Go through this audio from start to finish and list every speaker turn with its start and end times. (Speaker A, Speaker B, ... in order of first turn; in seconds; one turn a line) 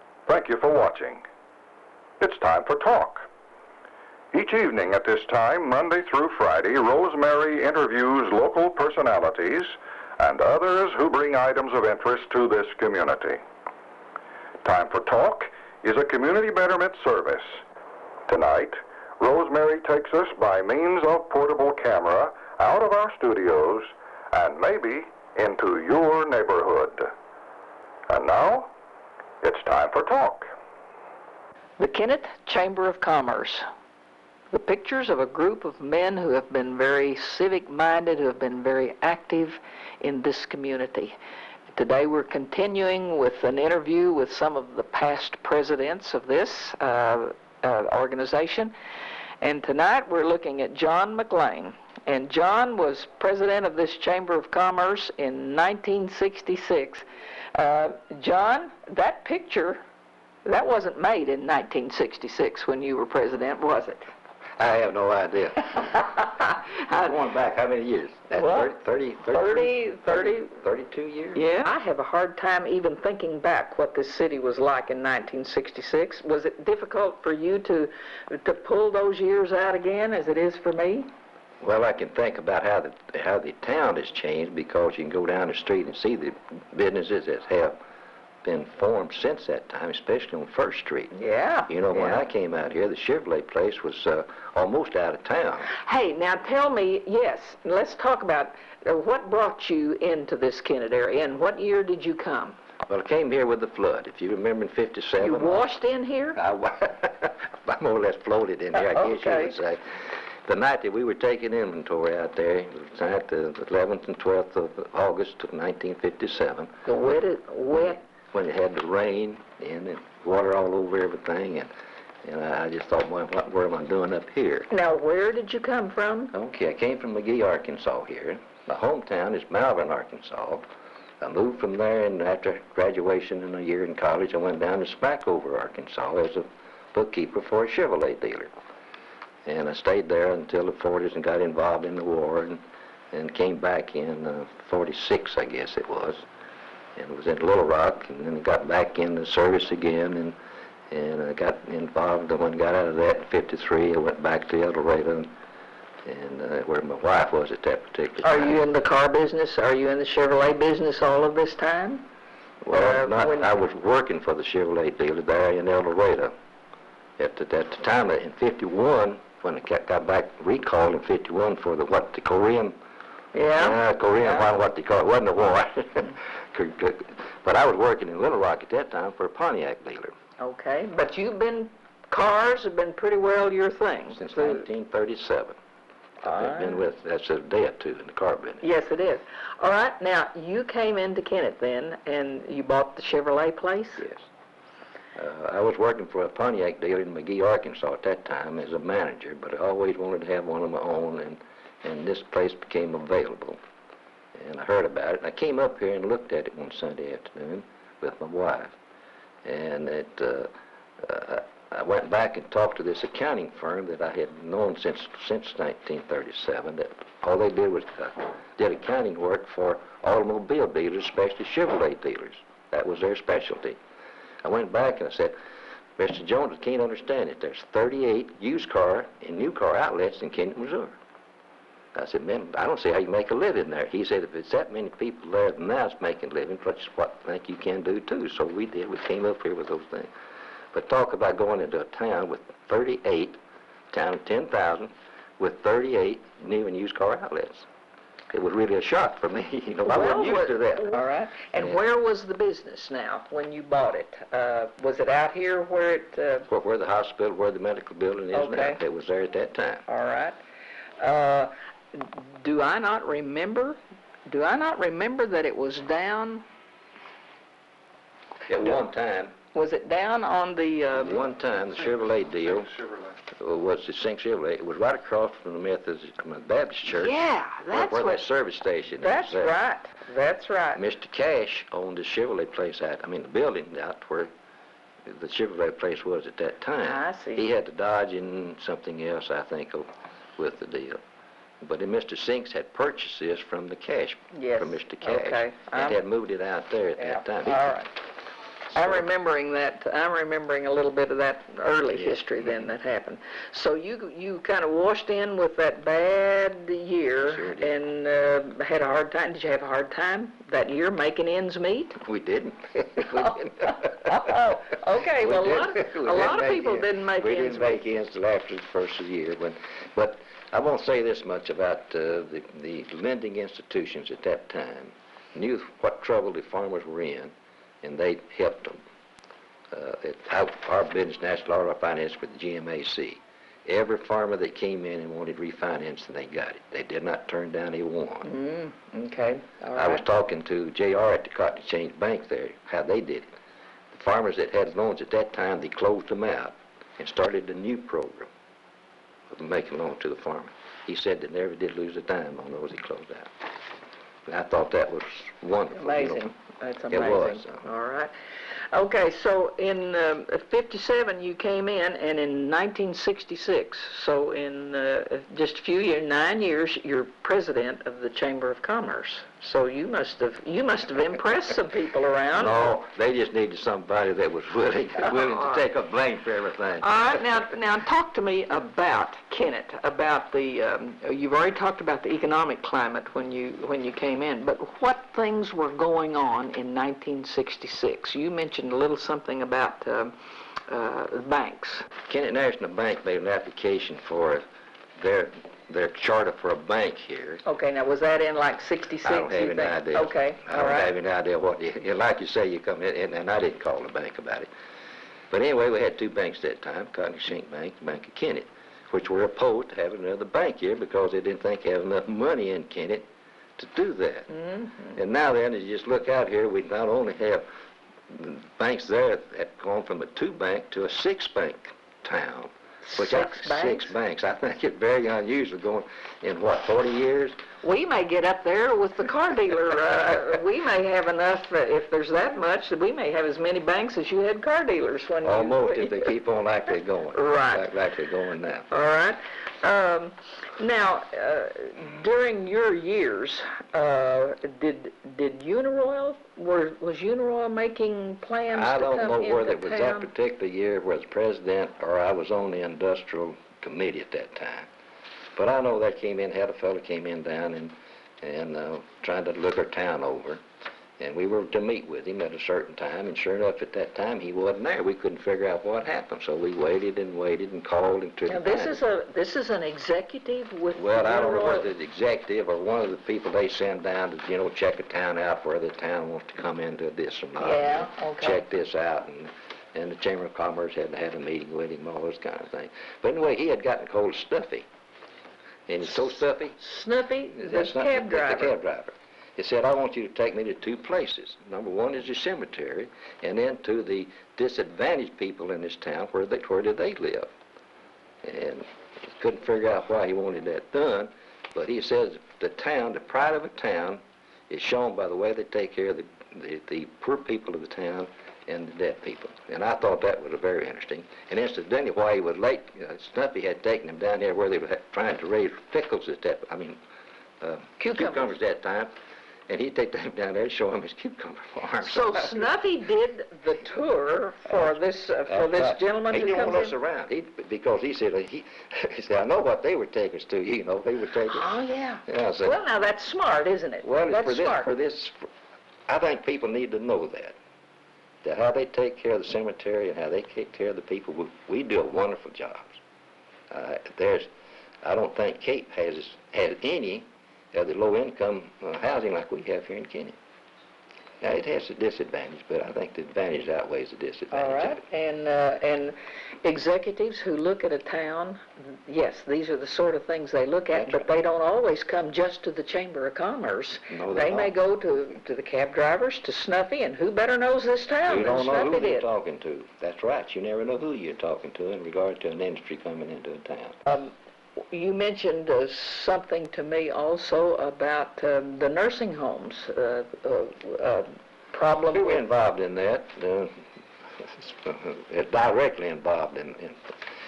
Speaker A: 0.3-1.2
Speaker A: 2.2-3.3
Speaker A: 4.3-13.4
Speaker A: 14.6-17.4
Speaker A: 18.3-27.1
Speaker A: 28.1-28.7
Speaker A: 29.4-30.5
Speaker B: 31.8-33.6
Speaker B: 34.5-41.2
Speaker B: 41.7-48.7
Speaker B: 49.4-59.8
Speaker B: 60.5-64.1
Speaker C: 64.6-66.3
Speaker B: 66.4-67.1
Speaker C: 66.9-71.5
Speaker B: 68.3-70.5
Speaker B: 71.3-81.1
Speaker C: 81.6-87.8
Speaker C: 88.4-91.1
Speaker B: 91.1-92.3
Speaker C: 91.7-95.7
Speaker B: 95.7-102.6
Speaker C: 102.9-105.7
Speaker B: 105.2-106.4
Speaker C: 106.4-116.7
Speaker B: 108.7-109.6
Speaker B: 116.9-118.0
Speaker C: 117.7-121.7
Speaker C: 122.2-124.7
Speaker B: 124.7-126.3
Speaker C: 126.3-130.7
Speaker C: 131.2-138.5
Speaker C: 139.5-146.2
Speaker C: 147.0-150.4
Speaker C: 150.9-155.3
Speaker C: 156.1-158.6
Speaker B: 158.2-162.1
Speaker C: 162.6-166.3
Speaker B: 162.7-163.6
Speaker C: 167.2-172.8
Speaker B: 173.3-174.5
Speaker C: 173.6-180.1
Speaker B: 180.4-184.7
Speaker C: 184.1-185.6
Speaker C: 186.2-188.6
Speaker B: 186.2-186.8
Speaker B: 188.6-194.1
Speaker C: 195.2-203.6
Speaker C: 204.3-208.7
Speaker C: 209.4-210.5
Speaker C: 211.0-223.8
Speaker C: 224.4-225.3
Speaker C: 226.0-230.9
Speaker C: 231.9-240.1
Speaker C: 240.7-243.4
Speaker C: 243.9-247.7
Speaker C: 248.3-251.0
Speaker B: 249.9-256.5
Speaker C: 251.6-251.8
Speaker C: 256.5-259.9
Speaker B: 258.3-258.8
Speaker B: 259.9-260.4
Speaker B: 261.0-266.4
Speaker C: 268.5-269.3
Speaker B: 269.5-271.2
Speaker C: 271.0-272.8
Speaker C: 273.3-277.2
Speaker B: 276.9-278.2
Speaker C: 277.7-279.5
Speaker B: 279.0-280.8
Speaker C: 280.8-284.3
Speaker C: 285.1-291.0
Speaker B: 286.8-287.5
Speaker C: 291.6-297.9
Speaker B: 294.3-296.0
Speaker B: 297.0-297.9
Speaker C: 298.7-299.1
Speaker B: 298.7-312.0
Speaker C: 301.9-302.7
Speaker C: 307.2-307.8
Speaker C: 312.0-314.2
Speaker B: 314.0-317.9
Speaker C: 315.2-328.8
Speaker C: 329.7-338.3
Speaker B: 338.2-340.0
Speaker C: 339.8-343.3
Speaker C: 343.9-348.3
Speaker C: 349.3-353.3
Speaker C: 354.3-356.3
Speaker B: 355.7-358.1
Speaker C: 356.9-357.6
Speaker B: 358.7-372.8
Speaker C: 372.3-376.9
Speaker B: 375.1-375.6
Speaker B: 376.8-390.1
Speaker B: 390.7-391.9
Speaker C: 392.1-394.4
Speaker C: 395.0-397.4
Speaker B: 397.4-400.9
Speaker C: 399.0-404.5
Speaker C: 405.3-413.1
Speaker C: 413.6-414.3
Speaker B: 414.4-414.9
Speaker C: 414.9-417.4
Speaker C: 418.1-427.4
Speaker B: 422.9-423.9
Speaker B: 427.6-436.1
Speaker C: 435.2-438.7
Speaker B: 437.1-437.7
Speaker B: 438.7-450.1
Speaker C: 448.5-454.7
Speaker C: 455.4-460.4
Speaker C: 461.0-468.8
Speaker B: 468.3-471.7
Speaker C: 470.8-484.7
Speaker B: 477.4-478.4
Speaker C: 485.7-486.6
Speaker B: 486.6-488.5
Speaker C: 487.3-497.3
Speaker C: 498.2-516.8
Speaker C: 517.4-518.9
Speaker B: 517.8-518.4
Speaker C: 519.5-522.5
Speaker B: 521.8-526.7
Speaker C: 524.5-532.6
Speaker B: 531.3-534.7
Speaker C: 533.8-535.3
Speaker C: 535.9-537.4
Speaker C: 538.2-542.8
Speaker C: 543.5-544.3
Speaker C: 544.8-550.2
Speaker C: 551.2-554.8
Speaker B: 554.3-569.1
Speaker C: 560.8-561.0
Speaker C: 563.9-564.5
Speaker C: 568.1-573.8
Speaker B: 573.9-574.1
Speaker B: 574.7-582.2
Speaker C: 581.9-583.6
Speaker C: 584.2-586.9